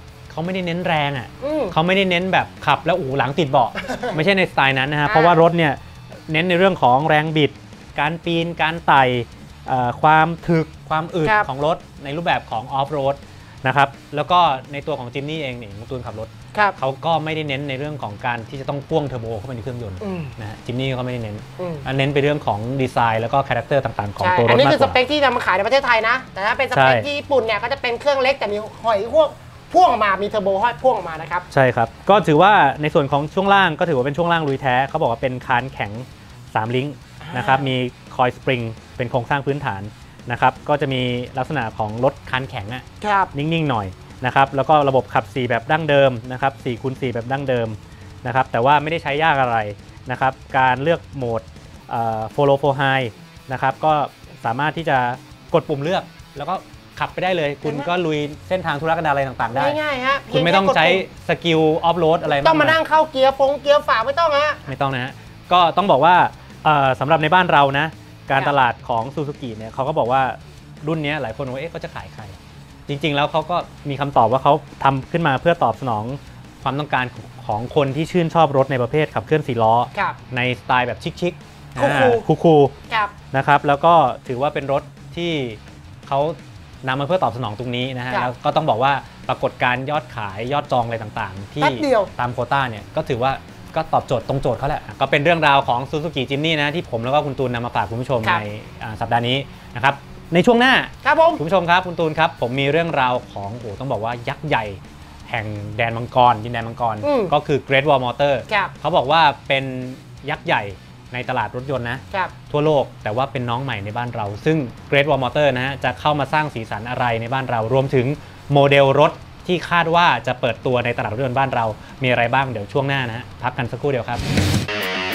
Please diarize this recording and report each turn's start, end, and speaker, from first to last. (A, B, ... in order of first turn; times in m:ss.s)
0:00.3-0:25.0 A
0:01.4-0:01.7 B
0:03.9-0:04.2 B
0:05.0-0:05.4 B
0:20.0-0:20.3 B
0:21.6-0:21.8 B
0:24.2-0:31.4 B
0:26.7-0:27.1 A
0:31.5-0:59.8 A
0:37.3-0:37.7 B
0:43.0-0:43.3 B
0:57.6-0:57.9 B
0:59.5-1:01.0 B
1:00.3-1:02.8 A
1:02.4-1:04.6 B
1:04.6-1:12.4 A
1:12.9-1:22.7 A
1:21.8-1:22.3 B
1:22.9-1:23.1 B
1:23.2-2:04.2 A
1:31.6-1:32.1 B
1:41.0-1:41.4 B
1:47.0-1:47.3 B
1:48.5-1:48.7 B